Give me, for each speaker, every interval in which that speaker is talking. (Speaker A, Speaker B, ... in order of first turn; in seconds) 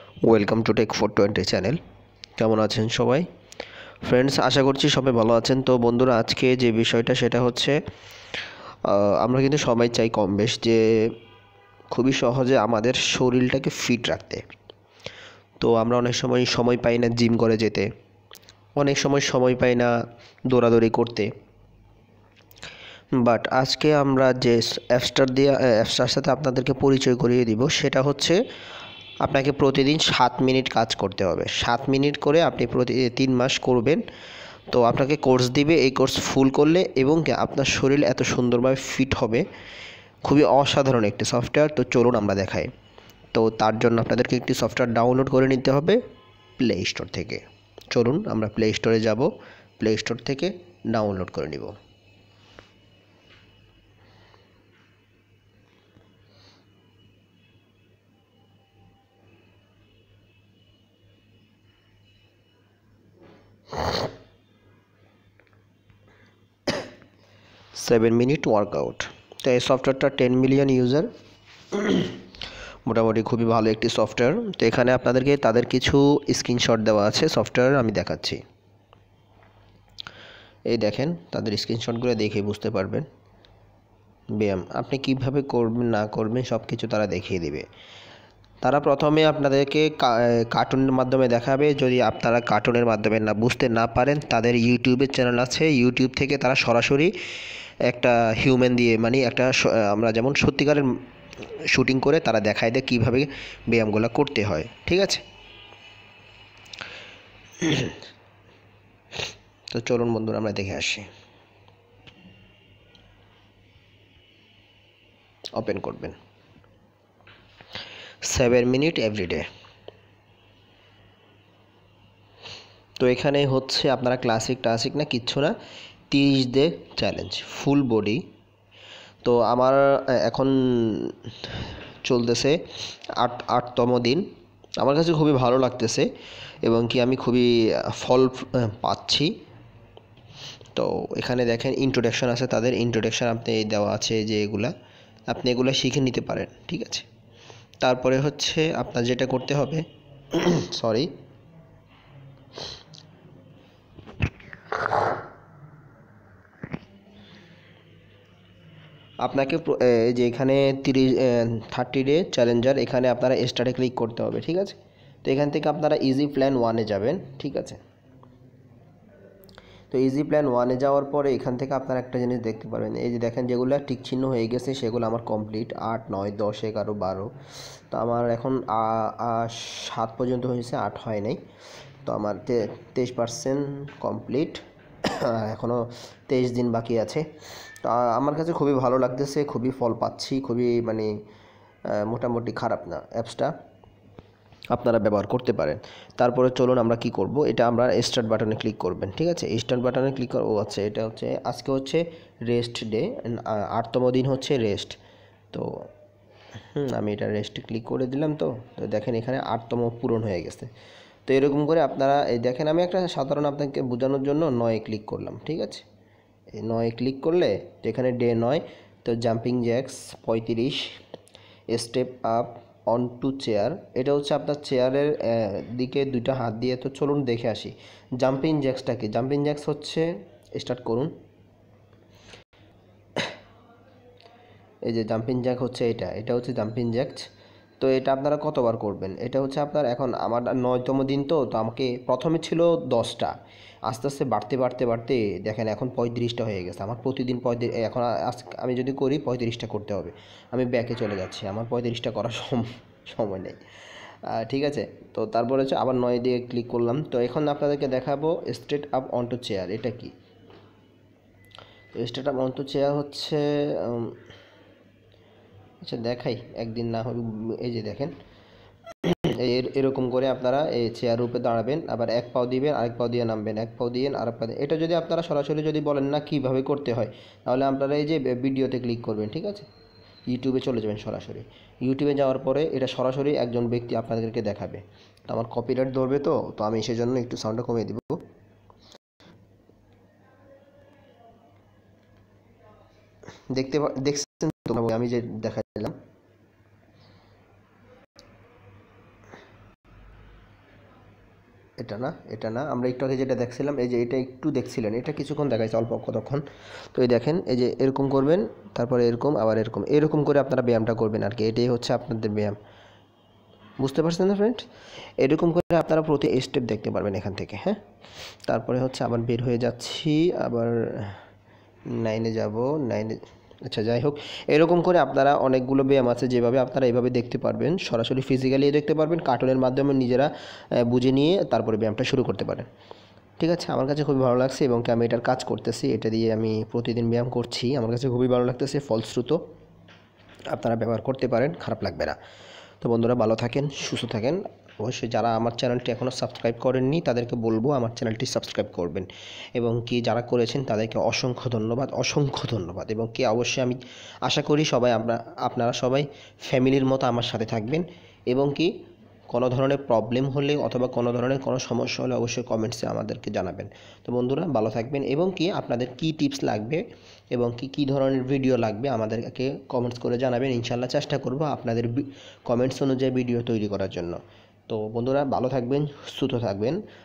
Speaker A: 0.2-1.8, 2.4-3.3, 4.0-7.8, 8.8-11.2, 11.9-14.4, 15.6-17.9, 18.8-19.9, 20.5-21.3, 23.2-28.4, 29.2-34.0, 34.7-39.4, 40.2-42.7, 43.3-46.0, 46.6-49.3, 49.8-51.8, 67.7-71.1, 71.7-72.2, 72.8-78.4, 80.7-83.0, 84.3-87.6, 88.6-97.1, 97.9-100.9, 101.7-105.2, 107.6-108.0, 109.7-111.1, 115.5-116.2, 118.2-119.5, 123.0-125.5, 126.1-128.2, 129.2-132.6, 133.2-134.2, 134.8-136.1, 136.6-139.3, 140.7-144.7, 145.3-147.1, 147.8-151.1, 159.2-167.8, 169.9-177.3, 177.9-181.4, 182.0-187.3, 187.8-191.1, 191.9-193.5, 194.7-205.0, 206.7-210.7, 211.2-215.8, 216.6-220.9, 221.7-231.1, 234.8-237.3, 237.8-243.3, 243.9-253.6, 254.2-260.1, 261.9-264.2, 265.8-268.1, 269.0-279.7, 280.3-288.2, 293.5-296.0, 301.8-312.6, 313.8-314.6, 315.2-317.8, 318.5-321.2, 321.9-332.7, 333.4-339.4, 340.5-342.2, 342.8-358.7, 359.3-376.8